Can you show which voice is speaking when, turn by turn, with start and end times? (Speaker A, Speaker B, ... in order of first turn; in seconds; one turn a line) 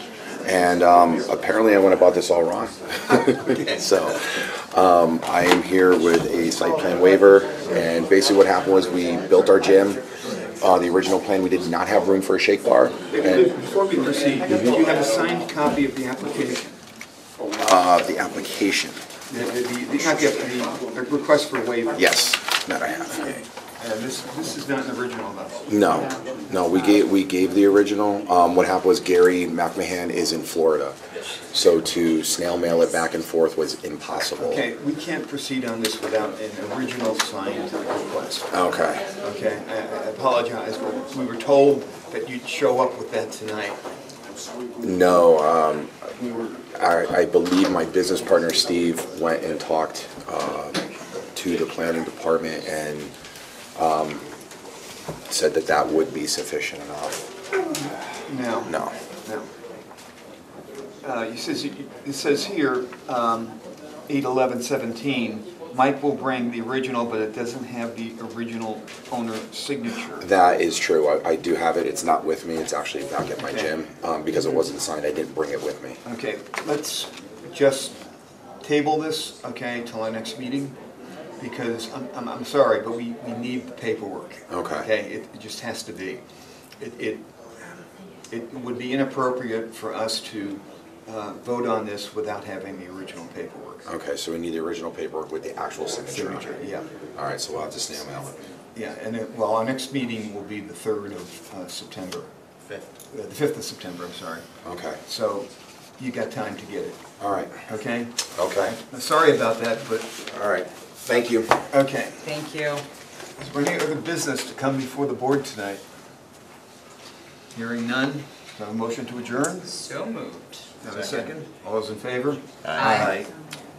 Speaker A: 0.4-13.5
Speaker B: 3.5-3.8
Speaker B: 13.1-16.8
Speaker A: 17.6-19.0
Speaker B: 19.3-22.2
Speaker A: 21.9-23.4
Speaker B: 23.8-25.7
Speaker A: 25.7-31.0
Speaker A: 31.5-34.7
Speaker B: 34.4-38.5
Speaker A: 38.5-39.0
Speaker B: 39.2-43.8
Speaker A: 44.8-53.1
Speaker A: 53.8-54.3
Speaker A: 55.3-57.3
Speaker B: 58.3-59.5
Speaker A: 58.7-59.0
Speaker B: 61.0-70.3
Speaker A: 70.2-76.0
Speaker B: 73.4-73.7
Speaker B: 76.0-78.0
Speaker B: 78.6-80.8
Speaker B: 81.4-86.2
Speaker A: 84.5-84.9
Speaker B: 86.8-87.3
Speaker B: 88.3-93.9
Speaker A: 93.9-98.4
Speaker B: 96.1-96.9
Speaker B: 98.8-102.3
Speaker B: 103.1-104.5
Speaker A: 104.6-105.0
Speaker B: 105.0-107.0
Speaker A: 107.2-107.7
Speaker B: 107.7-110.2
Speaker A: 108.3-108.7
Speaker A: 110.3-111.7
Speaker B: 111.7-112.2
Speaker C: 112.2-112.8
Speaker B: 113.4-115.8
Speaker B: 117.5-119.7
Speaker C: 119.7-120.7
Speaker B: 120.8-123.3
Speaker A: 120.9-121.3
Speaker C: 122.8-123.3